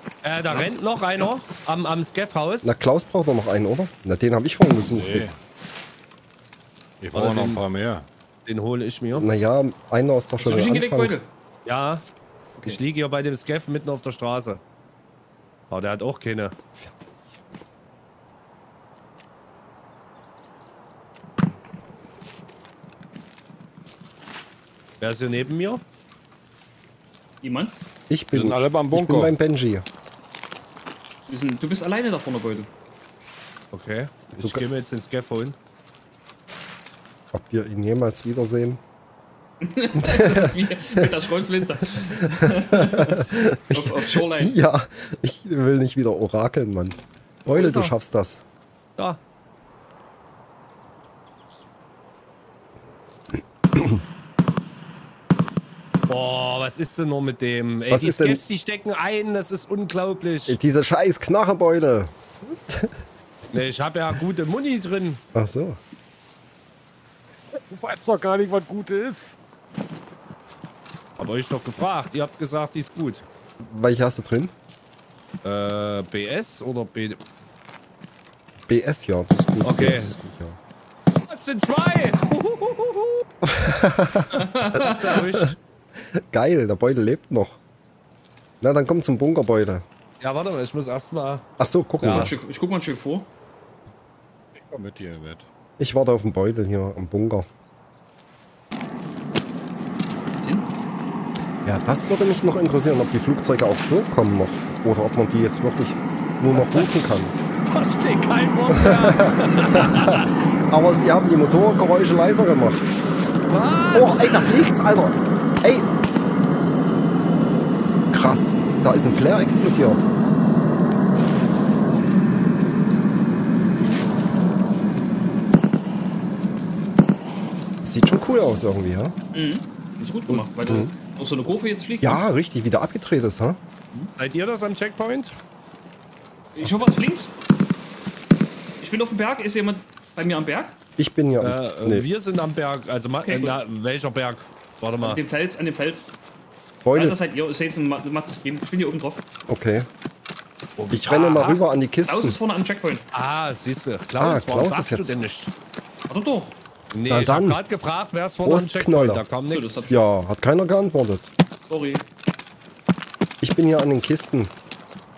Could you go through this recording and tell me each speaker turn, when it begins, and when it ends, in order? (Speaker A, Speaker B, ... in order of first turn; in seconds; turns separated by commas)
Speaker A: 0.2-2.7, Speaker B: 0.5-1.3, Speaker C: 2.6-5.3, Speaker D: 4.8-5.4, Speaker D: 7.0-8.1, Speaker A: 7.1-7.6, Speaker A: 8.4-9.3, Speaker C: 9.1-11.2, Speaker B: 10.4-11.3, Speaker A: 11.6-12.0, Speaker A: 12.7-14.6, Speaker A: 15.7-16.6, Speaker C: 16.7-17.4, Speaker A: 25.0-25.8, Speaker B: 27.4-27.8, Speaker C: 28.1-29.8, Speaker D: 28.3-29.3, Speaker B: 31.3-32.7, Speaker A: 33.7-35.6, Speaker C: 37.3-38.8, Speaker B: 39.6-44.5, Speaker C: 40.0-41.1, Speaker C: 42.7-48.4, Speaker B: 47.5-47.9, Speaker C: 53.7-54.0, Speaker A: 56.1-60.6, Speaker C: 57.9-58.4, Speaker C: 60.5-62.9, Speaker A: 63.5-65.2, Speaker C: 65.3-65.8, Speaker D: 67.5-69.4, Speaker A: 71.2-73.2, Speaker C: 73.6-74.5, Speaker A: 75.4-77.2, Speaker C: 78.7-80.6, Speaker A: 79.6-80.1, Speaker A: 81.3-83.2, Speaker C: 83.4-87.6, Speaker B: 84.3-85.0, Speaker A: 84.8-85.6, Speaker C: 88.6-89.8, Speaker A: 90.2-91.4, Speaker C: 91.6-92.3, Speaker A: 92.0-92.3, Speaker B: 92.0-93.3, Speaker D: 94.5-95.5, Speaker C: 95.8-97.5, Speaker B: 100.3-100.7, Speaker C: 101.6-107.3, Speaker A: 106.5-110.3, Speaker C: 108.7-112.9, Speaker A: 113.5-114.6, Speaker C: 113.9-115.9, Speaker C: 118.1-120.1, Speaker C: 127.8-129.2, Speaker B: 129.3-132.2, Speaker C: 130.3-130.9, Speaker C: 132.0-133.6, Speaker A: 134.2-135.3, Speaker B: 136.5-137.3, Speaker C: 136.6-137.0, Speaker B: 138.8-140.8, Speaker C: 141.0-142.1, Speaker A: 141.4-145.2, Speaker B: 143.2-143.6, Speaker B: 145.0-146.1, Speaker C: 146.8-147.2, Speaker B: 146.9-149.2, Speaker C: 149.5-149.9, Speaker A: 150.8-151.6, Speaker C: 150.9-152.4, Speaker B: 152.1-153.0, Speaker A: 153.1-155.5, Speaker C: 154.2-155.2, Speaker B: 156.1-156.6, Speaker A: 156.9-159.8, Speaker C: 157.1-157.6, Speaker C: 158.4-159.3, Speaker B: 159.5-160.0, Speaker C: 159.9-161.3, Speaker B: 161.7-162.0, Speaker C: 163.4-164.5